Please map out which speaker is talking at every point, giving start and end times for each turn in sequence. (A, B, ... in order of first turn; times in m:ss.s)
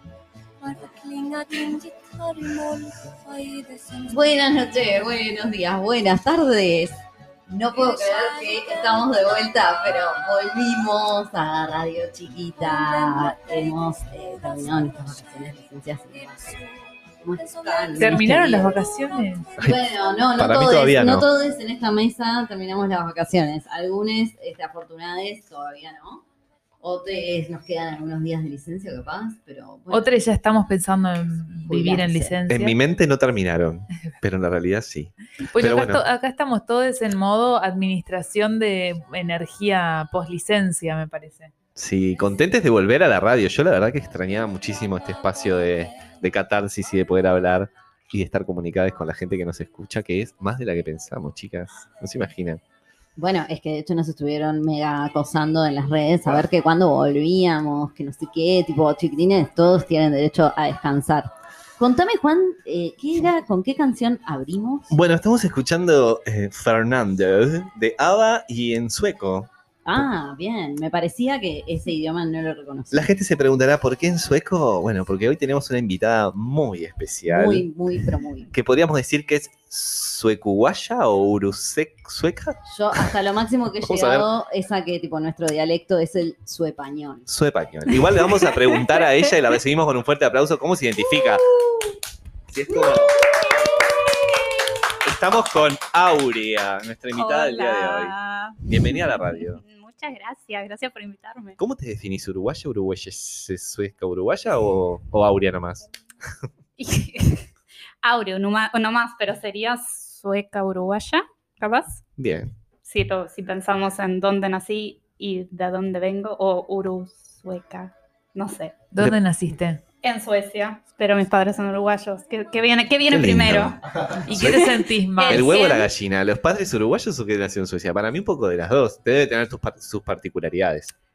0:00.6-0:04.8 A
0:04.1-0:16.6 B
0:07.7-0:09.5 A
0:12.6-0:15.5 A
0:16.1-0:20.2 A
0:17.2-0:18.8 B
0:18.0-0:19.5 C
0:19.6-0:26.2 B
0:20.4-0:21.2 D
0:26.8-0:30.2 B
0:29.9-0:32.8 C
0:31.7-0:32.3 B
0:32.5-0:36.0 D
0:35.5-0:41.5 C
0:41.8-0:52.6 D
0:44.9-0:46.2 A
0:53.2-1:04.9 B
1:04.9-1:10.0 D
1:09.8-1:13.1 B
1:12.9-1:17.7 D
1:17.3-1:18.5 B
1:18.5-1:23.1 D
1:22.7-1:27.2 B
1:23.8-1:24.3 D
1:27.3-1:31.5 D
1:32.5-1:33.3 D
1:35.0-1:39.6 D
1:37.1-1:41.6 E
1:41.6-1:45.9 D
1:46.8-1:47.5 E
1:48.0-1:52.0 E
1:52.2-1:52.5 D
1:52.8-1:58.8 E
1:58.9-1:59.8 C
2:00.0-2:03.8 E
2:03.1-2:10.9 D
2:04.2-2:05.5 C
2:04.4-2:05.9 E